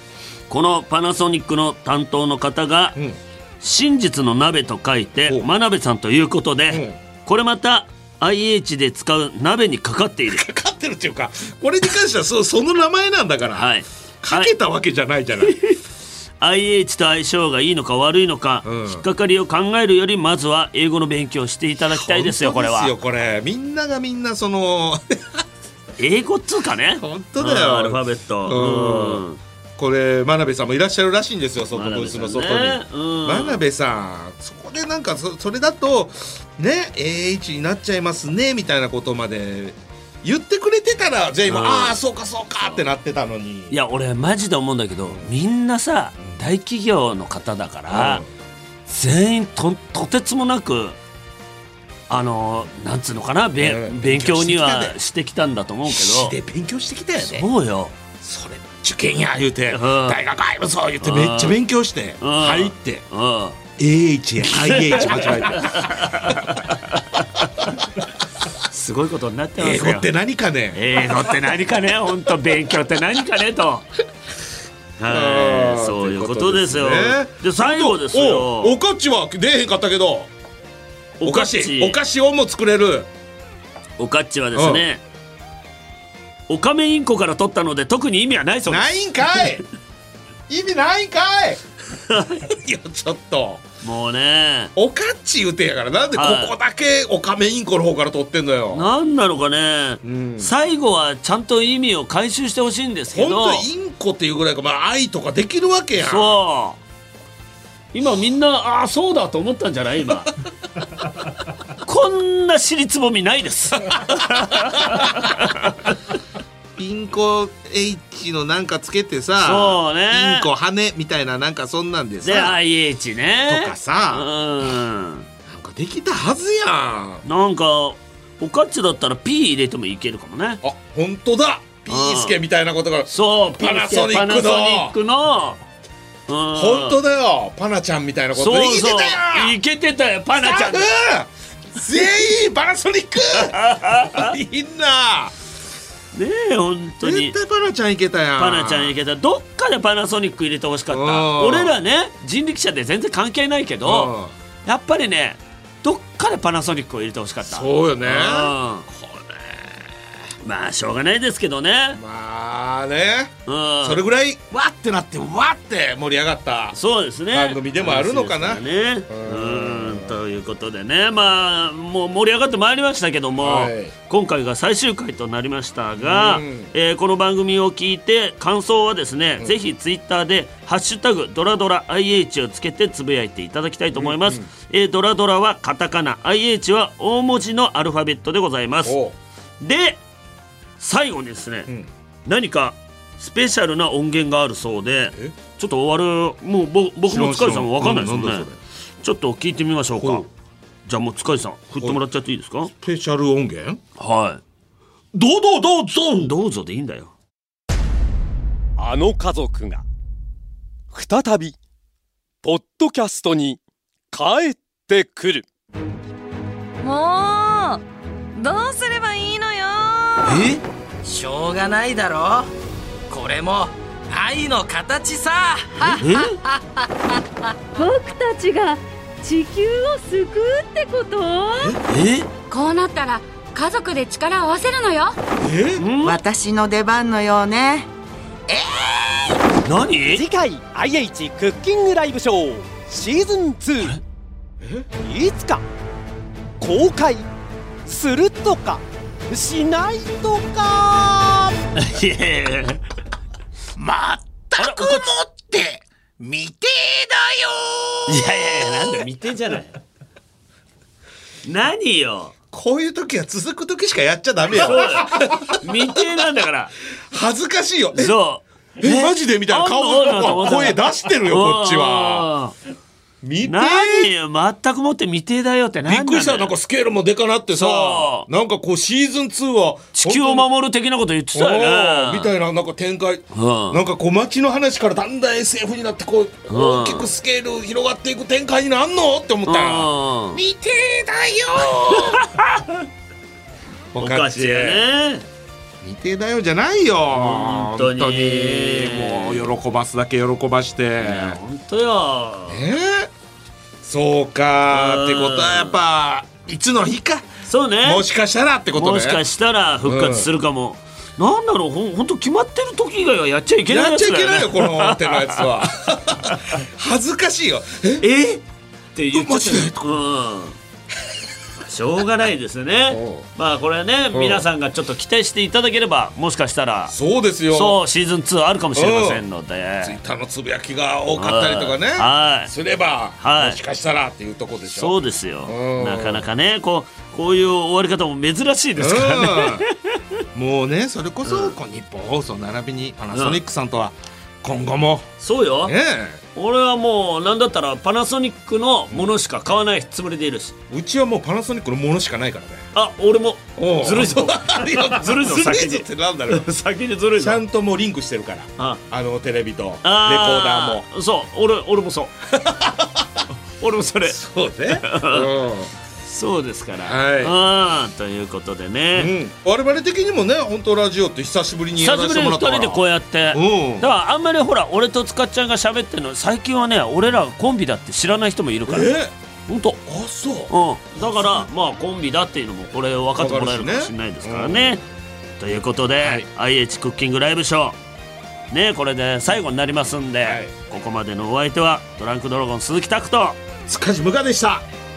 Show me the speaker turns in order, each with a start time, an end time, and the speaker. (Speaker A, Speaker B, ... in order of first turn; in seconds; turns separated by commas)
Speaker A: 0.5-3.0, Speaker A: 3.6-10.4, Speaker B: 6.7-7.0, Speaker B: 10.3-13.7, Speaker A: 13.6-14.5, Speaker B: 14.2-15.6, Speaker A: 15.4-15.8, Speaker A: 16.4-22.9, Speaker B: 18.6-19.1, Speaker B: 21.9-25.4, Speaker A: 26.0-29.4, Speaker B: 27.0-29.2, Speaker B: 29.8-43.8, Speaker A: 31.7-33.6, Speaker A: 41.5-42.0, Speaker A: 43.7-48.2, Speaker B: 45.1-45.3, Speaker B: 47.9-48.3, Speaker A: 48.9-51.0, Speaker A: 52.1-56.4, Speaker B: 53.6-55.0, Speaker B: 55.9-57.5, Speaker A: 57.2-58.0, Speaker B: 58.2-63.0, Speaker A: 59.7-60.2, Speaker A: 61.0-61.6, Speaker A: 62.2-63.6, Speaker B: 63.8-66.4, Speaker A: 64.5-67.8, Speaker A: 68.6-70.1, Speaker B: 69.6-71.5, Speaker A: 70.7-73.9, Speaker A: 75.0-78.8, Speaker B: 75.1-80.3, Speaker A: 81.2-82.0, Speaker B: 81.2-83.1, Speaker A: 84.0-85.0, Speaker B: 84.5-84.8, Speaker A: 86.5-89.5, Speaker B: 88.7-89.6, Speaker B: 90.5-91.6, Speaker A: 92.1-92.4, Speaker B: 92.4-93.6, Speaker A: 93.8-94.7, Speaker B: 94.8-98.9, Speaker A: 96.2-96.5, Speaker A: 98.7-103.7, Speaker B: 100.0-100.5, Speaker B: 103.1-106.4, Speaker A: 106.0-106.8, Speaker A: 107.9-110.3, Speaker A: 111.8-115.9, Speaker B: 116.8-122.6, Speaker A: 119.4-120.5, Speaker A: 122.2-125.3, Speaker B: 123.5-124.3, Speaker B: 125.5-127.2, Speaker A: 127.2-130.6, Speaker B: 130.6-134.9, Speaker A: 131.9-132.4, Speaker A: 133.1-135.6, Speaker A: 136.3-137.0, Speaker B: 136.5-139.6, Speaker A: 138.3-140.9, Speaker B: 140.3-145.3, Speaker A: 143.3-144.4, Speaker A: 146.1-147.4, Speaker B: 147.0-148.9, Speaker A: 148.4-154.1, Speaker B: 150.9-151.7, Speaker B: 153.8-154.3, Speaker A: 154.7-158.9, Speaker B: 157.4-159.8, Speaker A: 160.4-162.0, Speaker B: 161.9-166.8, Speaker A: 163.5-164.0, Speaker A: 166.8-189.0, Speaker B: 167.3-170.2, Speaker B: 173.4-173.9, Speaker B: 176.0-176.7, Speaker B: 183.9-184.5, Speaker B: 188.8-189.2, Speaker A: 189.6-190.0, Speaker A: 190.8-191.7, Speaker A: 192.3-198.5, Speaker B: 197.1-198.6, Speaker A: 199.0-200.3, Speaker B: 199.9-200.2, Speaker A: 200.9-202.7, Speaker B: 202.8-203.8, Speaker A: 204.0-204.4, Speaker B: 205.1-206.3, Speaker A: 206.2-207.1, Speaker C: 208.8-209.8, Speaker C: 210.9-211.6, Speaker C: 212.4-213.6, Speaker C: 214.1-215.5, Speaker D: 216.8-217.8, Speaker D: 218.4-220.5, Speaker E: 221.0-222.5, Speaker E: 223.1-226.8, Speaker A: 226.0-226.4, Speaker F: 227.8-231.8, Speaker B: 231.5-231.8, Speaker A: 231.9-232.3, Speaker G: 232.5-235.2, Speaker B: 235.4-235.9, Speaker A: 235.8-236.2, Speaker H: 236.0-237.9, Speaker H: 238.5-239.2, Speaker A: 239.7-240.2, Speaker C: 240.1-244.0, Speaker B: 244.6-244.9, Speaker C: 245.0-245.6, Speaker C: 246.6-247.3, Speaker C: 247.9-251.6, Speaker A: 251.8-252.8, Speaker B: 253.8-259.1, Speaker A: 254.6-255.1, Speaker A: 258.1-259.8, Speaker A: 261.4-262.3, Speaker B: 262.5-265.8, Speaker A: 264.5-266.7, Speaker B: 267.1-268.2, Speaker A: 267.9-272.5, Speaker B: 268.8-272.3, Speaker B: 273.2-274.1, Speaker A: 273.4-276.5, Speaker B: 275.9-280.5, Speaker A: 277.5-278.3, Speaker A: 280.0-282.3, Speaker B: 281.3-292.2, Speaker A: 283.3-283.8, Speaker A: 286.5-287.1, Speaker A: 289.5-290.4, Speaker A: 291.9-292.9, Speaker B: 293.9-294.8, Speaker A: 294.0-295.3, Speaker B: 295.8-301.4, Speaker A: 297.1-299.5, Speaker A: 301.0-302.6, Speaker B: 302.5-303.1, Speaker B: 303.8-307.3, Speaker A: 304.7-305.8, Speaker A: 307.5-308.1, Speaker B: 307.8-309.2, Speaker A: 308.8-315.5, Speaker B: 309.8-310.3, Speaker B: 313.7-318.1, Speaker A: 318.0-318.4, Speaker A: 318.9-320.6, Speaker B: 319.1-319.9, Speaker A: 321.7-326.9, Speaker B: 322.9-323.3, Speaker B: 324.1-324.4, Speaker B: 326.9-327.8, Speaker A: 327.5-330.0, Speaker B: 328.8-329.2, Speaker B: 329.8-336.3, Speaker A: 331.1-332.5, Speaker A: 333.2-333.6, Speaker A: 334.7-340.0, Speaker B: 338.8-339.7, Speaker B: 340.3-345.1, Speaker A: 341.2-341.6, Speaker A: 343.1-343.4, Speaker A: 345.2-345.8, Speaker B: 345.6-346.2, Speaker A: 346.4-350.6, Speaker B: 350.7-352.6, Speaker A: 352.8-357.4, Speaker B: 353.6-356.5, Speaker B: 357.2-360.8, Speaker A: 359.8-362.1, Speaker B: 362.3-363.2, Speaker A: 363.6-365.3, Speaker B: 364.1-365.7, Speaker A: 366.1-369.1, Speaker B: 366.8-367.4, Speaker B: 369.0-373.9, Speaker A: 371.8-378.9, Speaker B: 378.7-379.1, Speaker A: 379.5-379.8, Speaker B: 379.9-381.5, Speaker A: 380.5-384.8, Speaker B: 383.2-384.8, Speaker A: 385.4-387.8, Speaker B: 386.0-386.3, Speaker A: 388.5-393.4, Speaker B: 390.2-390.5, Speaker B: 393.7-394.7